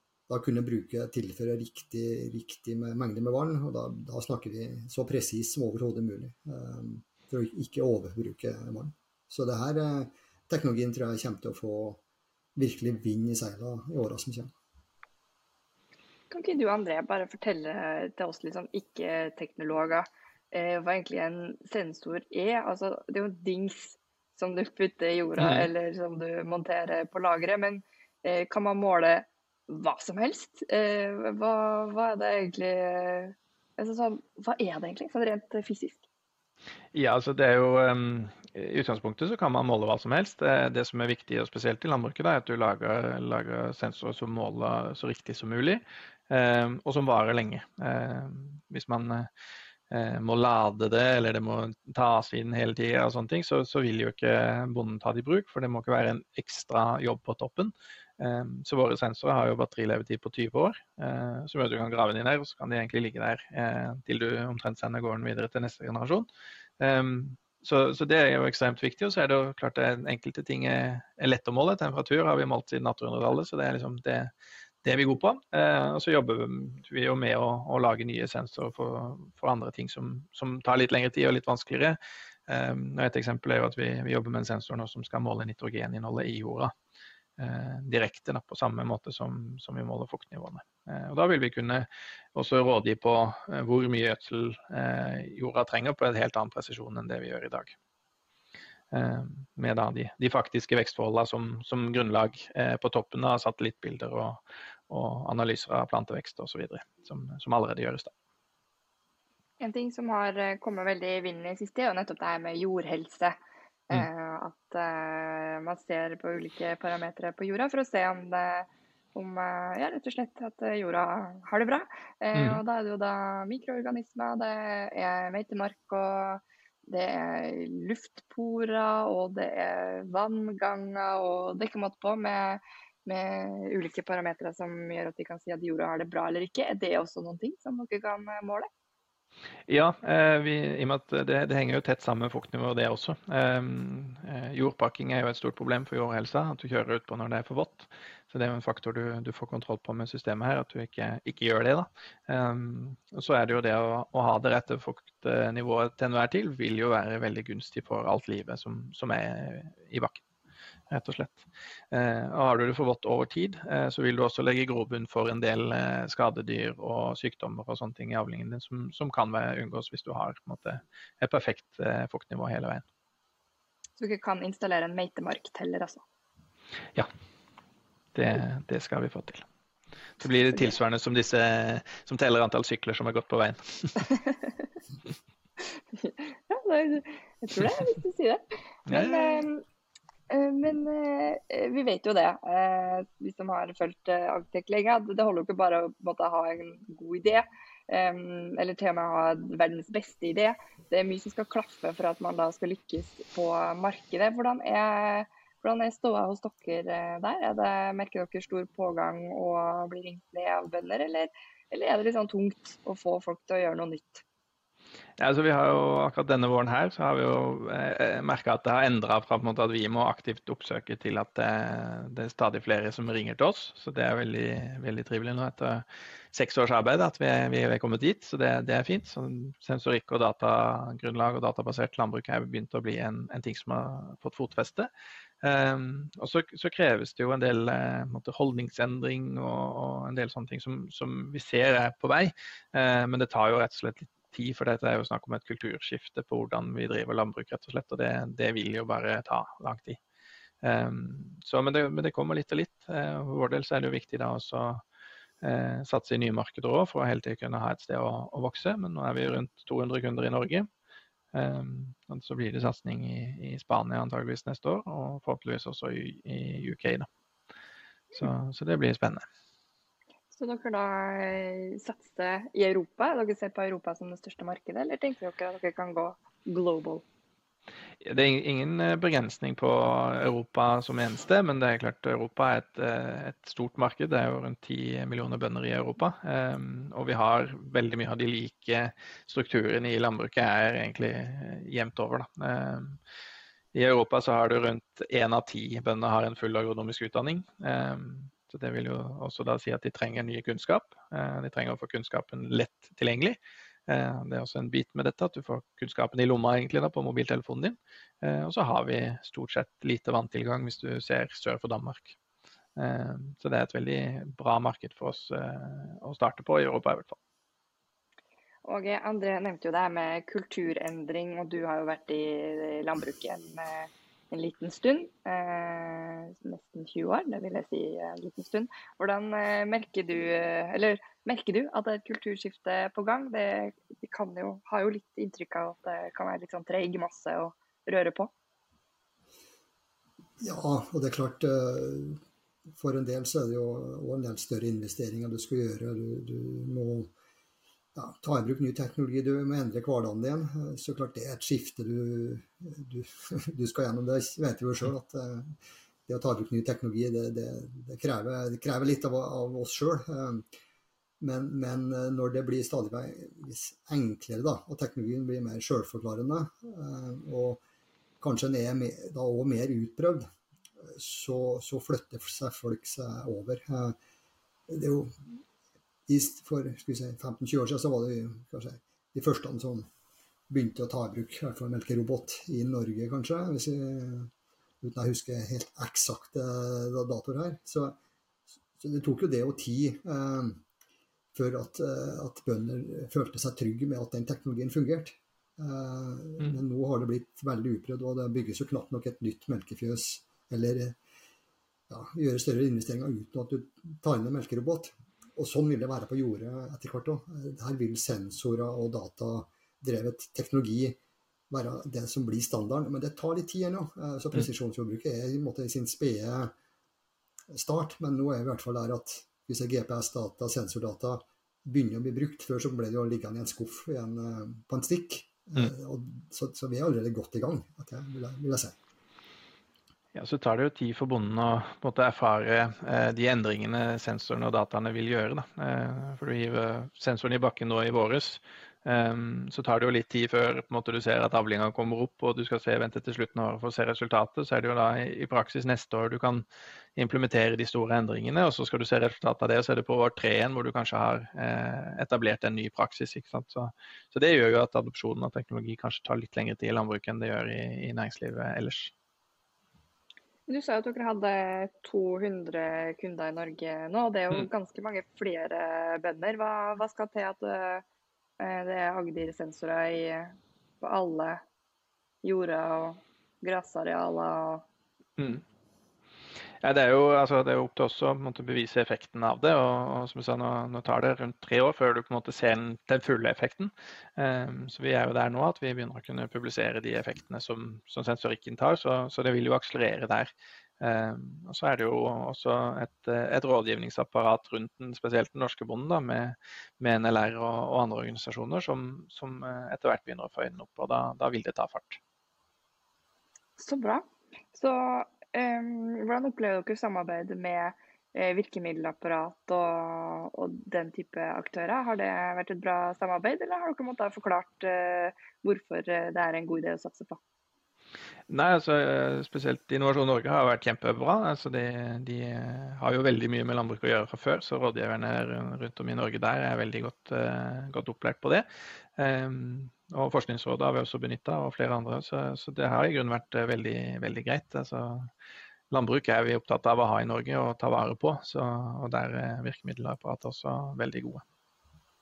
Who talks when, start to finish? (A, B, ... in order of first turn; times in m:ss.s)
0:00.3-0:12.0 A
0:12.6-0:14.5 A
0:16.3-0:36.0 B
0:25.4-0:25.7 C
0:36.9-0:49.3 C
0:49.9-1:06.3 C
1:06.8-1:14.3 C
1:14.8-1:22.0 C
1:22.5-1:26.7 C
1:27.4-1:37.8 C
1:38.9-1:48.1 C
1:49.6-1:53.4 B
1:53.9-2:18.7 B
2:02.3-2:02.6 C
2:19.7-2:40.2 C
2:40.9-2:52.8 C
2:54.0-2:56.0 B
2:58.2-2:59.4 C
3:00.2-3:04.1 C
3:06.0-3:09.6 B
3:08.9-3:09.4 C
3:10.3-3:34.2 B
3:35.2-3:54.9 C
3:55.4-4:10.0 C
4:10.6-4:14.8 C
4:15.4-4:20.7 C
4:21.3-4:27.1 C
4:28.2-4:29.3 C
4:30.3-4:37.0 B
4:38.0-4:53.0 C
4:53.7-5:12.2 C
5:12.8-5:17.2 C
5:18.6-5:38.3 B
5:40.4-5:42.2 A
5:42.7-5:47.1 A
5:48.0-6:00.4 A
6:01.2-6:07.6 A
6:08.2-6:10.3 A
6:10.8-6:14.0 A
6:14.7-6:15.4 A
6:16.1-6:19.9 A
6:20.5-6:24.3 A
6:24.8-6:28.0 A
6:28.8-6:30.6 A
6:31.3-6:41.0 A
6:41.9-6:51.0 A
6:51.5-6:56.5 A
6:57.5-7:08.8 A
7:10.1-7:26.4 C
7:27.0-7:38.9 C
7:40.5-7:47.8 B
7:48.4-7:51.4 B
7:52.2-7:54.6 B
7:55.2-7:55.4 C
7:56.6-8:22.0 C
8:23.6-8:37.2 B
8:38.3-8:48.5 C
8:49.0-8:55.1 C
8:55.7-9:01.2 C